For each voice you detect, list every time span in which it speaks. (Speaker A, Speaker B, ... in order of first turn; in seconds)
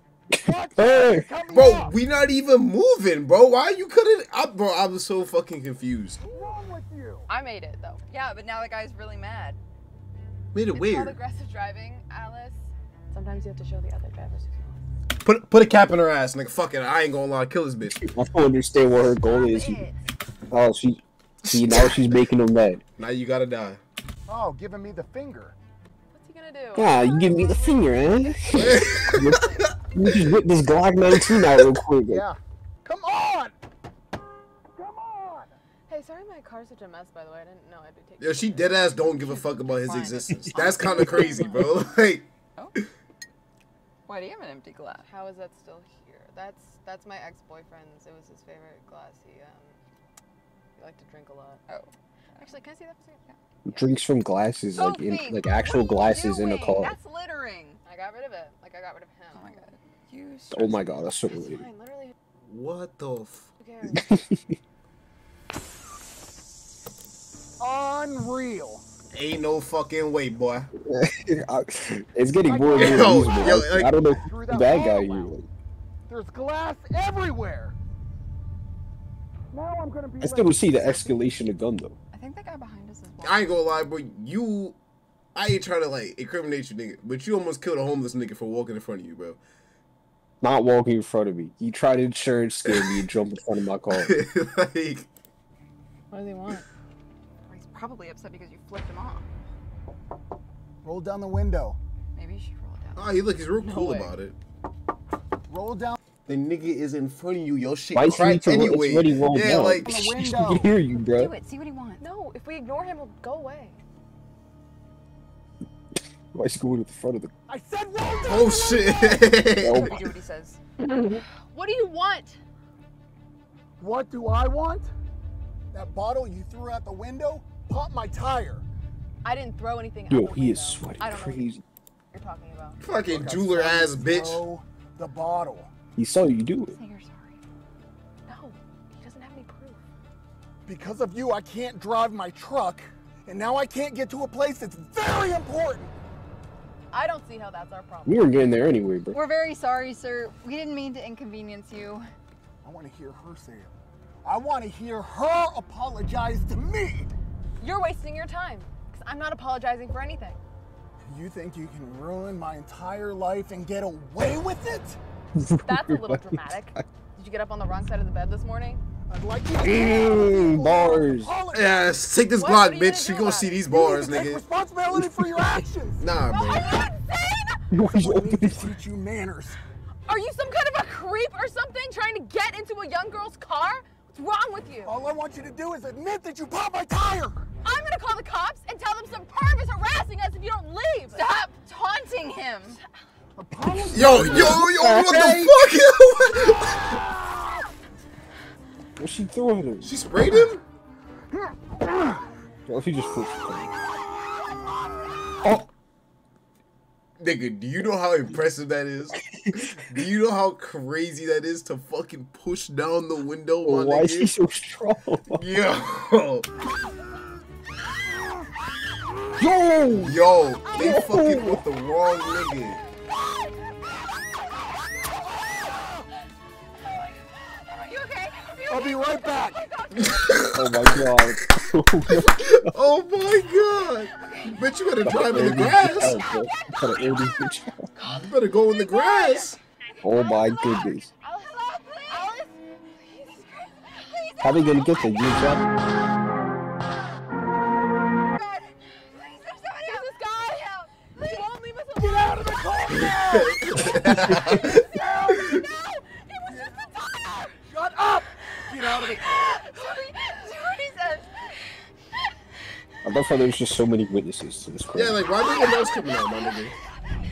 Speaker A: 0.4-1.9, 6.2-7.2, 24.3-25.5, 32.1-33.5, 34.8-35.5, 67.6-68.8, 72.4-75.0, 76.1-77.7, 79.5-81.2, 100.8-101.8, 105.5-106.0, 110.0-110.7, 117.5-119.3, 123.8-124.9, 125.7-128.6, 133.0-135.7, 140.7-145.9, 152.6-153.7, 154.2-157.1, 161.0-165.0, 169.1-171.9, 173.7-176.1, 177.8-179.6, 184.8-187.4, 193.4-194.6, 228.7-229.6, 251.9-253.8, 254.4-255.3, 257.7-259.5
Speaker B: 0.8-1.2, 18.0-19.8, 20.5-22.8, 26.7-32.2, 53.6-57.0, 60.5-61.6, 63.9-64.5, 70.8-75.5, 80.2-82.0, 90.4-94.2, 107.9-111.3, 116.3-117.3, 119.6-120.0, 120.9-121.2, 130.1-131.6, 135.9-136.8, 148.0-149.2, 165.4-166.8, 169.6-171.3, 177.7-178.8, 194.0-195.6, 199.0-199.9, 202.7-203.7, 209.3-209.8, 213.6-215.5, 219.4-220.2, 220.7-221.6, 230.5-232.7, 235.0-237.9, 240.0-241.1, 244.4-245.7, 263.0-265.2
Speaker C: 1.5-6.2, 10.5-11.2, 15.2-18.0, 21.5-22.2, 23.0-23.8, 28.5-29.4, 38.2-42.9, 62.5-63.5, 69.1-70.7, 72.8-73.9, 83.2-84.8, 85.3-89.4, 92.6-93.0, 93.9-95.1, 103.0-104.3, 106.2-110.0, 118.2-120.2, 132.8-134.4, 171.5-174.4, 176.0-176.7, 193.9-197.0, 199.8-200.6, 207.2-209.2, 209.8-214.3, 215.3-216.5, 220.0-222.8, 229.9-231.1, 232.1-236.2, 238.0-239.6, 252.9-254.8, 264.9-266.7
Speaker D: 7.3-8.0, 10.7-14.8, 26.1-28.1, 35.9-39.2, 40.5-41.6, 45.0-49.8, 50.8-51.6, 52.4-53.3, 57.8-59.7, 61.3-62.1, 63.6-64.1, 96.1-96.7, 103.6-104.1, 112.0-113.8, 121.5-122.4, 129.2-131.5, 132.1-132.8, 138.2-139.8, 146.9-148.3, 157.6-160.4, 165.6-168.8, 172.4-173.8, 176.3-177.6, 180.1-184.9, 187.6-191.4, 238.0-239.4, 241.2-243.6, 249.8-252.4
Speaker E: 8.1-9.6, 19.2-20.0, 39.2-41.3, 44.1-45.0, 51.7-52.7, 54.7-57.8, 59.3-61.0, 75.0-75.3, 82.1-83.6, 97.5-99.2, 102.1-103.1, 109.8-110.4, 111.0-112.0, 119.6-120.6, 136.6-137.3, 149.1-152.1, 191.1-192.8, 227.0-230.5, 235.1-238.0, 240.1-242.4, 243.5-245.4, 248.3-251.5, 255.4-257.6, 258.7-261.6, 265.4-266.7